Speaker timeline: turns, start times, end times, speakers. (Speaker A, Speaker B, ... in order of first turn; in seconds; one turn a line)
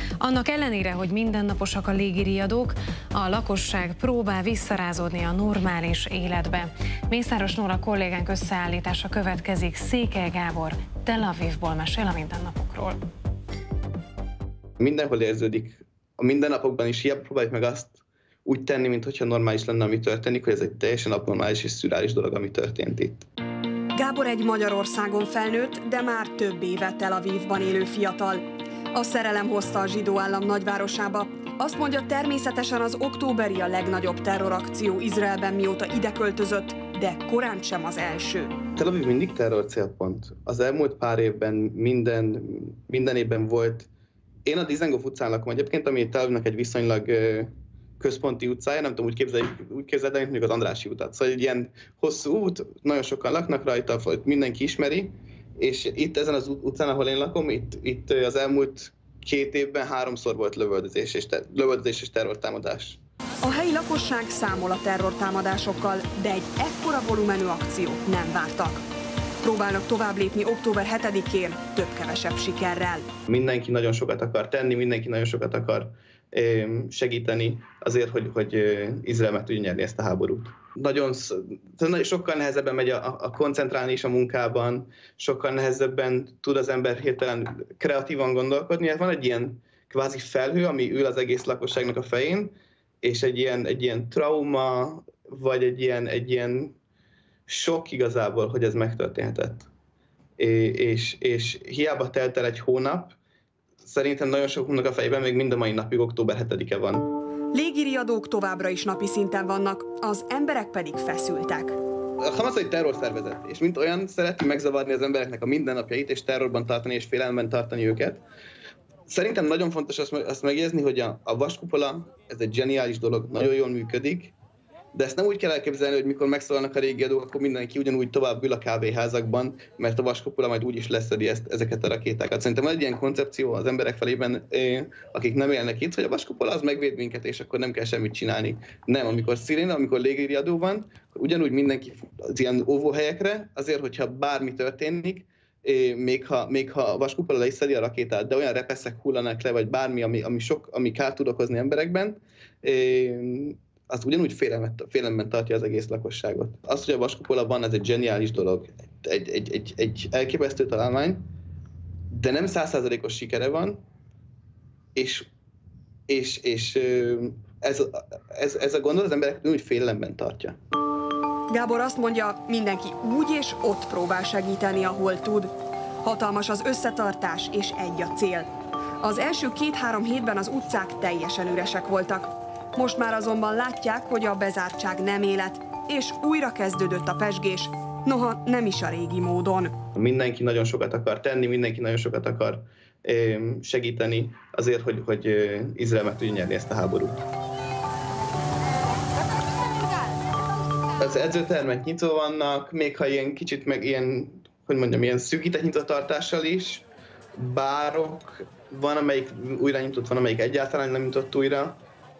Speaker A: 0.2-13.0
Speaker B: 14.8-23.2
Speaker C: 23.9-38.6
Speaker B: 38.8-43.9
Speaker B: 44.5-63.0
Speaker C: 63.4-68.8
Speaker C: 69.4-73.1
Speaker B: 73.3-96.8
Speaker B: 97.5-99.7
Speaker B: 100.4-103.2
Speaker B: 103.8-107.1
Speaker C: 107.5-111.8
Speaker B: 112.2-118.2
Speaker B: 119.1-124.3
Speaker B: 124.9-161.3
Speaker B: 162.1-163.8
Speaker B: 164.9-165.3
Speaker B: 166.1-170.6
Speaker C: 171.5-178.5
Speaker C: 179.0-189.8
Speaker B: 190.0-197.2
Speaker B: 201.0-206.8
Speaker B: 207.4-211.8